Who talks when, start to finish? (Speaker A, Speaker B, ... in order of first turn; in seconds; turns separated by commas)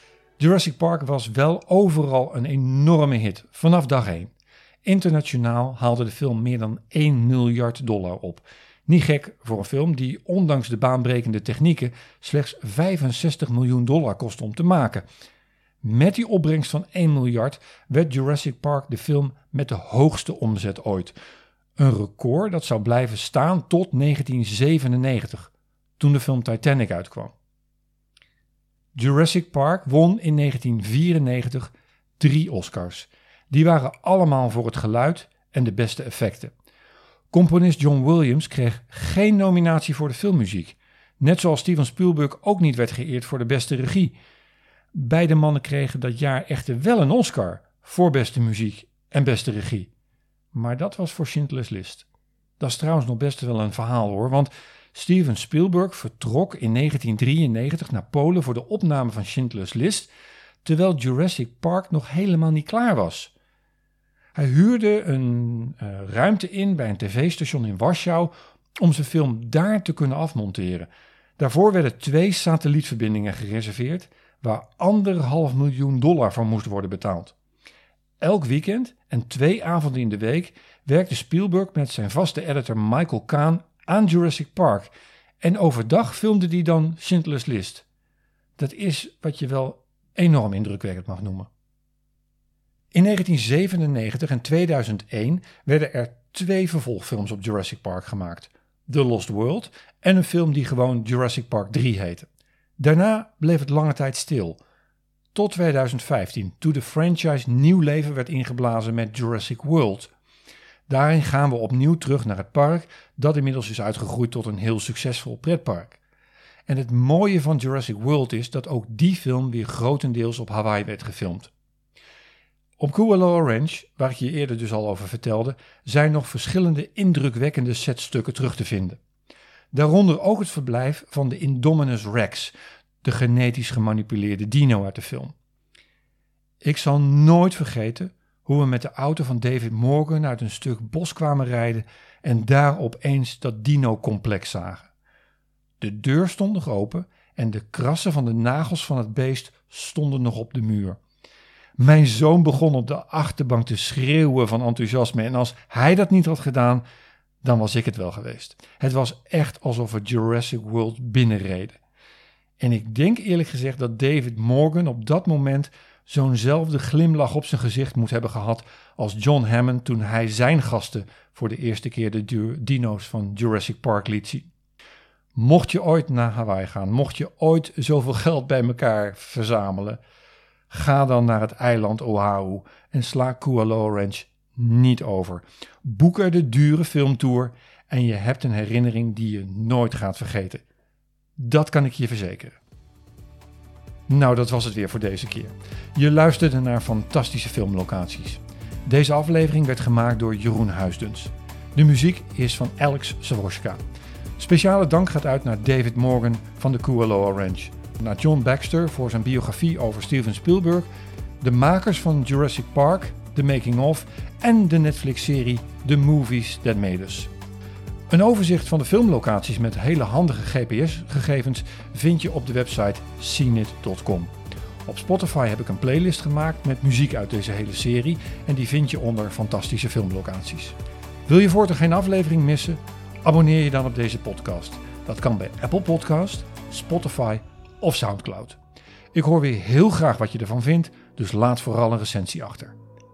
Speaker A: 0.4-4.3, Speaker A: 4.8-15.1, Speaker A: 15.8-21.1, Speaker A: 21.8-27.3, Speaker A: 28.9-36.5, Speaker A: 37.3-44.1, Speaker A: 44.9-49.9, Speaker A: 50.5-52.1, Speaker A: 52.6-60.1, Speaker A: 60.6-63.3, Speaker A: 64.3-77.3, Speaker A: 78.2-87.8, Speaker A: 88.6-91.5, Speaker A: 92.9-102.3, Speaker A: 102.8-104.6, Speaker A: 105.3-110.1, Speaker A: 110.9-116.0, Speaker A: 116.7-121.5, Speaker A: 122.8-129.0, Speaker A: 129.7-135.3, Speaker A: 136.6-144.9, Speaker A: 145.8-151.0, Speaker A: 151.8-156.8, Speaker A: 157.4-161.8, Speaker A: 162.6-174.5, Speaker A: 175.3-180.0, Speaker A: 180.7-190.6, Speaker A: 191.4-192.6, Speaker A: 194.1-203.8, Speaker A: 204.4-210.9, Speaker A: 211.4-217.3, Speaker A: 218.1-224.3, Speaker A: 224.9-230.8, Speaker A: 231.3-238.6, Speaker A: 239.1-242.8